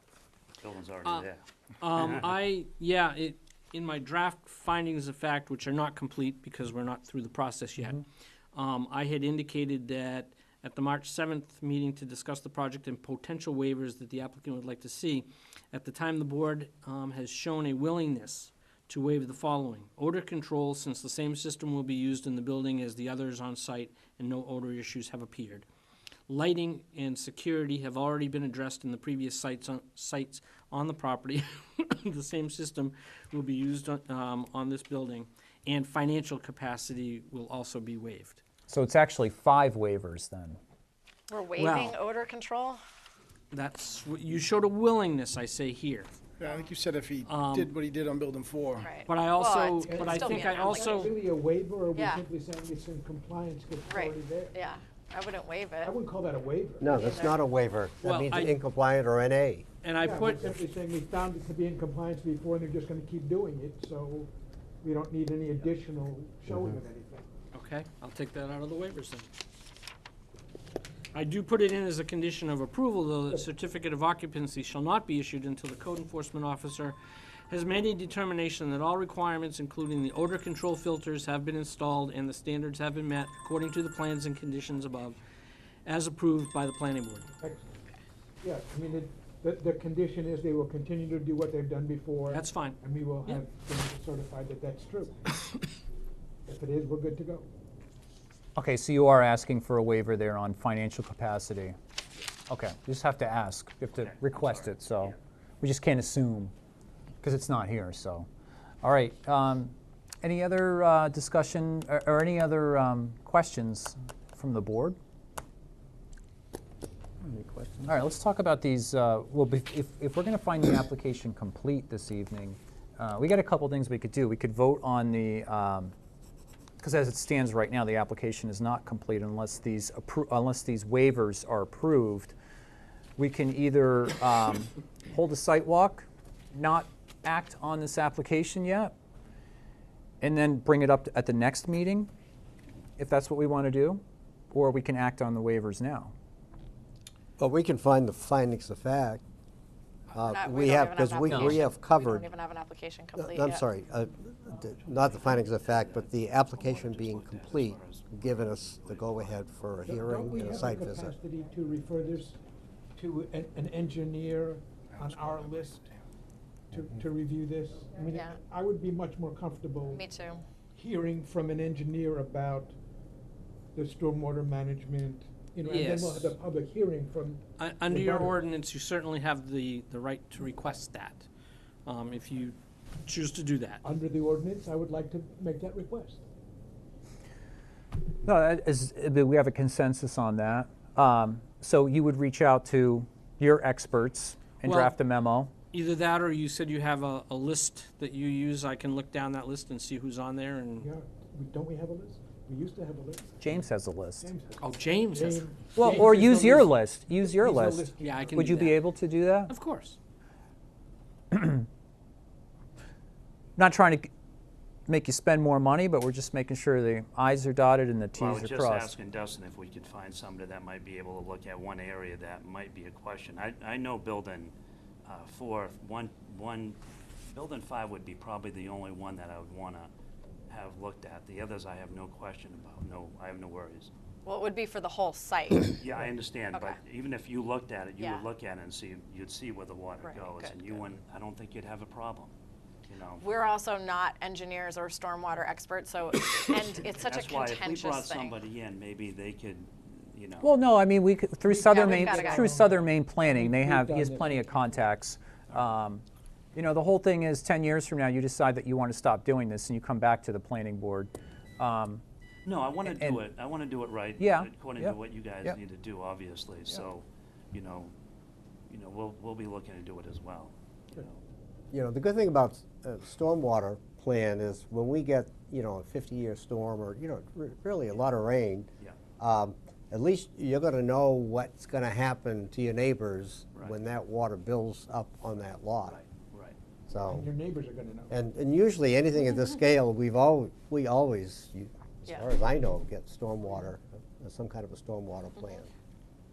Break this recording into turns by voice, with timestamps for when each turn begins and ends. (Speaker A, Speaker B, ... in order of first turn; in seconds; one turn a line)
Speaker A: 0.6-1.4
Speaker B: 1.8-25.7
Speaker B: 26.3-38.4
Speaker C: 38.7-40.6
Speaker D: 41.3-42.8
Speaker B: 41.5-42.0
Speaker B: 43.5-46.1
Speaker E: 46.4-48.9
Speaker B: 47.2-47.8
Speaker D: 48.8-51.1
Speaker B: 49.1-51.1
Speaker F: 49.8-54.6
Speaker D: 51.9-52.2
Speaker D: 53.9-56.0
Speaker F: 55.8-57.0
Speaker G: 56.8-59.7
Speaker D: 56.9-57.4
Speaker B: 58.0-58.5
Speaker B: 59.8-60.5
Speaker F: 60.0-64.3
Speaker F: 64.8-67.3
Speaker G: 66.5-66.8
Speaker B: 67.5-69.3
Speaker B: 71.1-77.0
Speaker B: 77.5-85.2
Speaker B: 85.9-87.3
Speaker F: 87.4-87.7
Speaker F: 88.4-95.3
Speaker B: 92.3-93.4
Speaker F: 96.5-97.5
Speaker C: 98.6-101.8
Speaker C: 102.5-106.5
Speaker A: 104.0-105.1
Speaker C: 107.2-108.3
Speaker C: 108.8-115.0
Speaker C: 117.8-125.9
Speaker C: 126.8-132.4
Speaker C: 133.2-138.9
Speaker C: 140.2-142.1
Speaker C: 143.0-146.1
Speaker G: 147.4-149.2
Speaker G: 150.1-152.3
Speaker D: 150.2-153.6
Speaker C: 151.3-151.7
Speaker G: 153.2-161.2
Speaker A: 155.0-159.6
Speaker F: 159.9-162.4
Speaker F: 163.0-165.8
Speaker E: 164.9-166.0
Speaker F: 166.7-170.0
Speaker D: 168.1-168.4
Speaker D: 169.9-170.4
Speaker F: 170.8-172.8
Speaker F: 173.7-178.4
Speaker B: 175.7-176.4
Speaker B: 177.6-181.3
Speaker B: 181.9-183.8
Speaker F: 183.8-186.2
Speaker C: 188.2-195.5
Speaker B: 194.6-194.9
Speaker B: 195.7-200.9
Speaker F: 200.8-203.6
Speaker C: 203.4-204.3
Speaker F: 204.2-208.6
Speaker B: 204.6-205.5
Speaker C: 205.8-209.5
Speaker B: 208.0-208.8
Speaker B: 209.5-210.0
Speaker C: 211.3-211.7
Speaker C: 213.6-214.1
Speaker C: 214.9-218.9
Speaker A: 218.1-229.9
Speaker A: 230.5-233.9
Speaker D: 234.2-235.8
Speaker A: 235.8-242.3
Speaker D: 236.5-236.8
Speaker D: 238.0-238.3
Speaker D: 240.0-240.9
Speaker A: 242.9-243.2
Speaker D: 243.2-248.4
Speaker A: 247.0-250.5
Speaker C: 250.4-256.0
Speaker F: 251.5-254.6
Speaker D: 251.6-252.6
Speaker C: 256.6-262.0
Speaker A: 262.4-267.9
Speaker C: 262.8-263.2
Speaker C: 264.2-265.6
Speaker A: 268.7-271.2
Speaker G: 271.7-286.0
Speaker A: 285.9-286.6
Speaker G: 286.9-287.3
Speaker F: 287.1-288.2
Speaker G: 288.1-295.7